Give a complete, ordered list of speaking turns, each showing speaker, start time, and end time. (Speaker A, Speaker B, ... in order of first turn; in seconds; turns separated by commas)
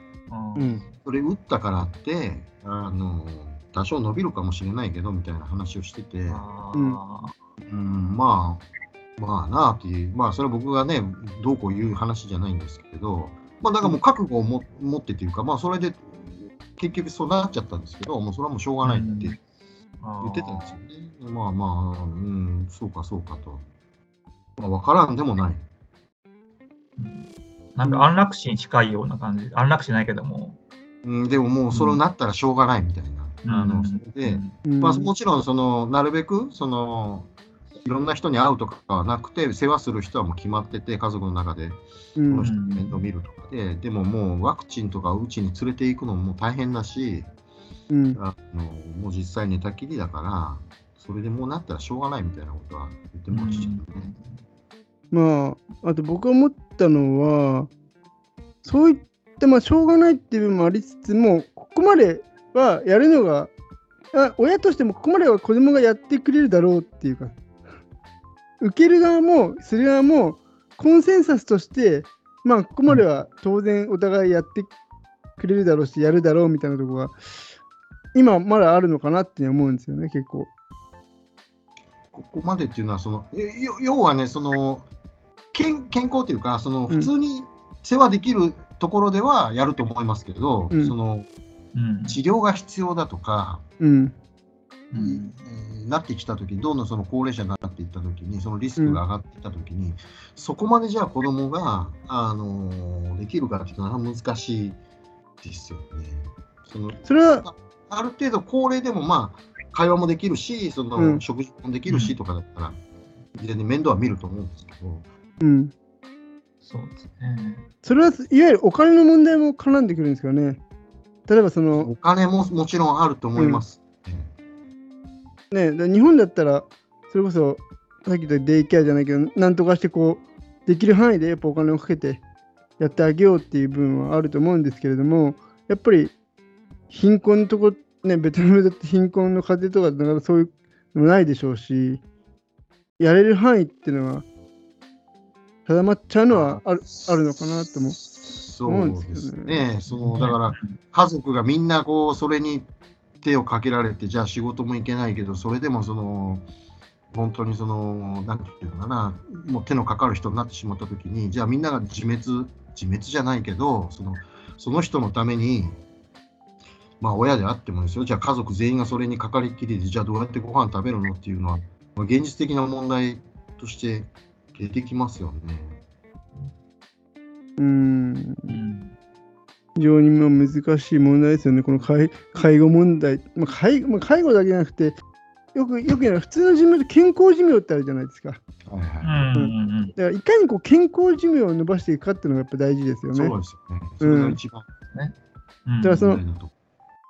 Speaker A: 0.3-0.9, Speaker B: 0.6-0.8, Speaker C: 1.0-6.4, Speaker A: 6.3-7.3, Speaker B: 6.7-7.0, Speaker C: 7.7-8.6, Speaker C: 9.2-19.4, Speaker A: 18.8-19.4, Speaker A: 20.0-20.8, Speaker C: 20.2-23.6, Speaker C: 24.6-25.6, Speaker A: 27.0-30.6, Speaker C: 31.0-37.3, Speaker A: 31.7-32.0, Speaker A: 33.5-34.5, Speaker B: 34.6-35.1, Speaker C: 37.8-47.3, Speaker B: 42.2-42.5, Speaker A: 42.4-43.0, Speaker B: 47.9-48.2, Speaker C: 48.2-54.1, Speaker A: 53.3-54.4, Speaker B: 55.1-57.7, Speaker B: 58.6-63.5, Speaker B: 64.1-67.3, Speaker B: 68.6-74.7, Speaker B: 75.4-77.1, Speaker B: 78.2-80.5, Speaker C: 82.1-84.9, Speaker C: 85.5-91.3, Speaker A: 91.7-92.2, Speaker C: 92.1-93.6, Speaker B: 93.8-94.2, Speaker A: 94.9-95.3, Speaker C: 95.0-104.8, Speaker C: 105.4-112.8, Speaker B: 107.0-107.5, Speaker B: 111.0-111.2, Speaker A: 111.9-112.2, Speaker C: 113.4-115.1, Speaker B: 115.4-115.7, Speaker A: 116.6-117.7, Speaker B: 117.8-120.6, Speaker B: 121.3-121.9, Speaker C: 121.7-124.3, Speaker B: 123.4-123.6, Speaker B: 125.5-132.2, Speaker B: 132.8-136.1, Speaker B: 136.9-142.0, Speaker B: 143.0-144.2, Speaker B: 145.7-148.0, Speaker C: 146.3-152.7, Speaker B: 148.7-149.6, Speaker A: 149.9-150.8, Speaker C: 153.2-156.5, Speaker C: 157.1-165.8, Speaker C: 167.0-175.8, Speaker B: 177.6-178.6, Speaker A: 178.5-178.9, Speaker B: 179.8-185.0, Speaker B: 185.5-188.4, Speaker C: 188.7-189.1, Speaker A: 189.0-189.9, Speaker B: 189.4-193.3, Speaker C: 193.1-194.7, Speaker B: 194.0-194.4, Speaker A: 195.7-196.1, Speaker B: 195.8-196.2, Speaker C: 195.9-196.5